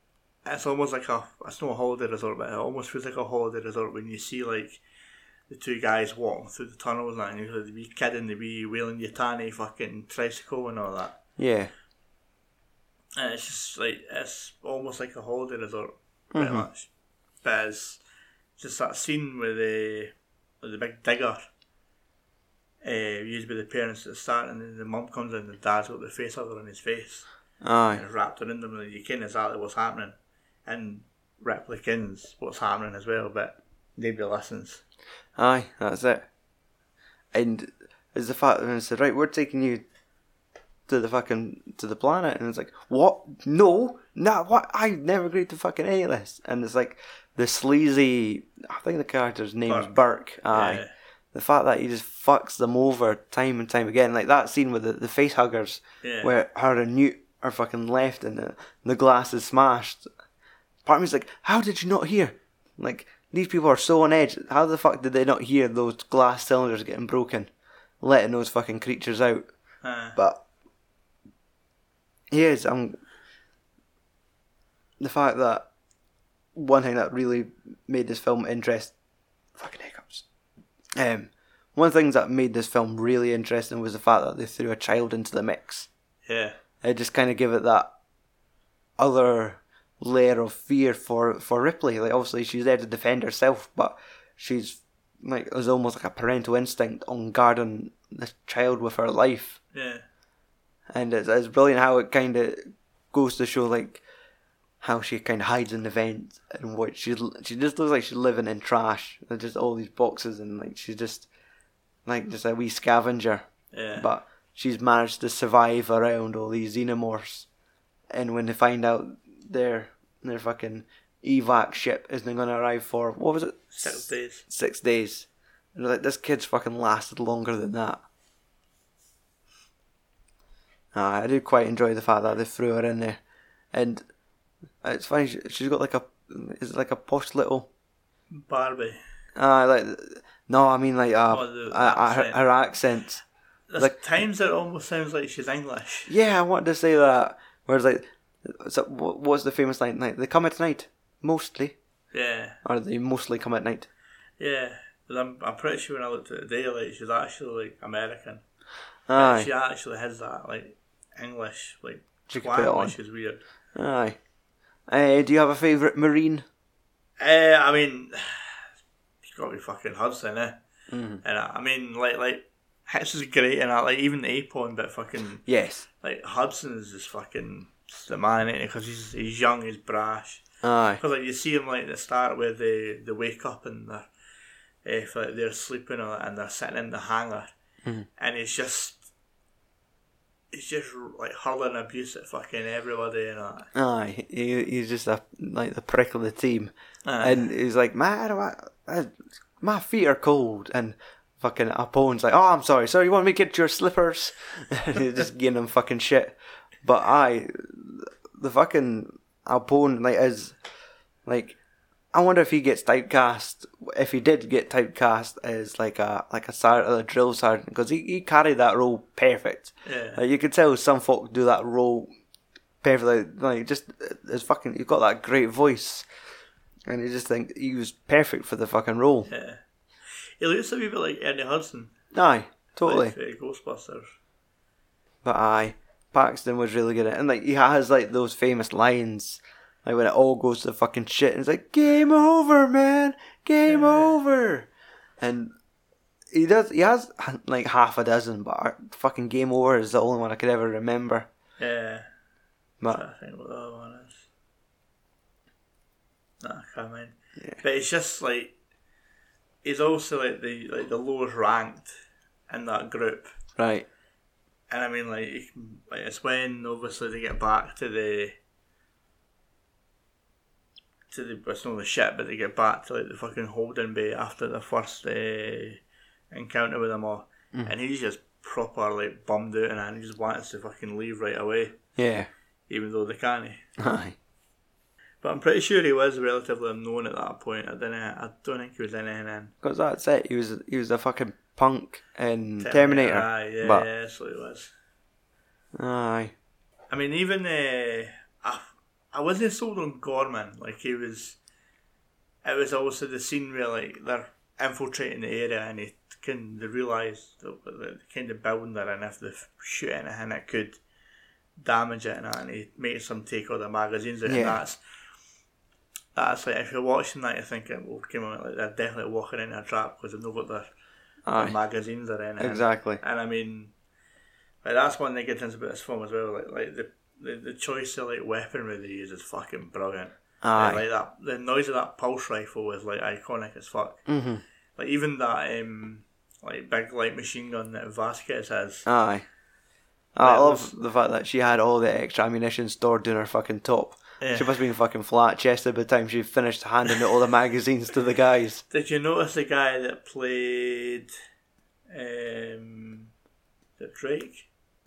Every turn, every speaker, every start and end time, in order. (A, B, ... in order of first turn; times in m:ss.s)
0:00.4-0:04.8 A
0:05.5-0:11.2 A
0:11.4-0:11.7 B
0:13.2-0:16.9 A
0:16.3-0:16.7 B
0:17.4-0:18.0 A
0:18.6-0:21.5 A
0:22.8-0:27.3 A
0:27.6-0:28.0 B
0:27.9-0:34.8 A
0:35.4-0:36.3 B
0:37.3-0:39.8 B
0:40.9-1:00.1 B
0:49.7-0:50.0 A
0:50.5-0:50.9 A
0:56.0-0:56.3 A
1:00.8-1:07.5 B
1:08.0-1:09.5 B
1:09.8-1:10.2 A
1:10.2-1:10.4 B
1:12.3-1:13.0 B
1:15.0-1:15.7 B
1:16.6-1:18.9 B
1:19.6-1:20.2 B
1:21.0-1:25.9 B
1:26.3-1:26.6 A
1:26.8-1:27.9 B
1:29.0-1:39.6 B
1:39.7-1:40.0 A
1:40.9-1:44.0 B
1:44.8-1:51.3 B
1:52.1-1:53.4 B
1:53.7-1:54.1 A
1:54.0-1:57.5 B
1:58.1-2:08.0 B
2:03.7-2:04.4 A
2:10.9-2:13.2 B
2:13.7-2:14.0 B
2:14.8-2:17.7 B
2:18.3-2:19.0 A
2:19.4-2:23.2 B
2:21.3-2:22.4 A
2:23.7-2:26.1 A
2:26.1-2:31.8 B
2:32.1-2:32.6 A
2:32.6-2:33.9 B
2:34.4-2:38.4 A
2:39.1-2:39.5 B
2:39.1-2:43.4 A
2:42.3-2:43.0 B
2:43.8-2:44.2 B
2:44.9-2:46.4 B
2:47.2-2:48.6 A
2:49.2-2:50.6 A
2:50.9-2:51.2 B
2:51.2-2:55.4 A
2:55.5-2:55.9 B
2:56.0-3:00.4 A
3:00.6-3:01.0 B
3:01.0-3:04.1 A
3:04.8-3:07.5 A
3:08.2-3:09.1 A
3:10.5-3:13.7 A
3:13.8-3:30.6 B
3:17.1-3:17.5 A
3:31.3-3:31.6 B
3:32.1-3:42.1 B
3:39.8-3:40.2 A
3:42.8-3:46.1 B
3:46.9-3:49.3 B
3:49.3-3:49.6 A
3:50.4-3:51.9 A
3:52.1-3:53.2 B
3:52.8-3:54.1 A
3:55.2-4:04.7 B
4:03.7-4:04.1 A
4:05.2-4:05.5 B
4:06.3-4:11.3 B
4:11.6-4:12.1 A
4:12.9-4:14.3 A
4:16.4-4:18.6 A
4:19.6-4:21.9 A
4:22.5-4:23.3 A
4:23.6-4:23.9 B
4:24.7-4:28.4 A
4:31.1-4:41.8 A
4:42.0-4:42.3 B
4:42.7-4:43.7 A
4:43.8-4:44.2 B
4:45.2-4:49.5 A
4:49.6-4:53.9 B
4:52.6-4:54.7 A
4:55.8-4:56.3 B
4:56.9-5:01.4 A
5:02.4-5:10.8 A
5:11.6-5:14.8 A
5:14.3-5:14.6 B
5:16.2-5:20.7 A
5:21.3-5:21.6 B
5:21.3-5:23.7 A
5:22.4-5:23.0 B
5:24.6-5:34.0 A
5:30.4-5:30.8 B
5:34.1-5:34.4 B
5:34.8-5:38.9 A
5:38.9-5:39.3 B
5:40.2-5:48.6 B
5:40.2-5:40.8 A
5:44.2-5:44.6 A
5:48.7-5:51.1 A
5:51.9-5:53.1 A
5:53.8-5:54.5 A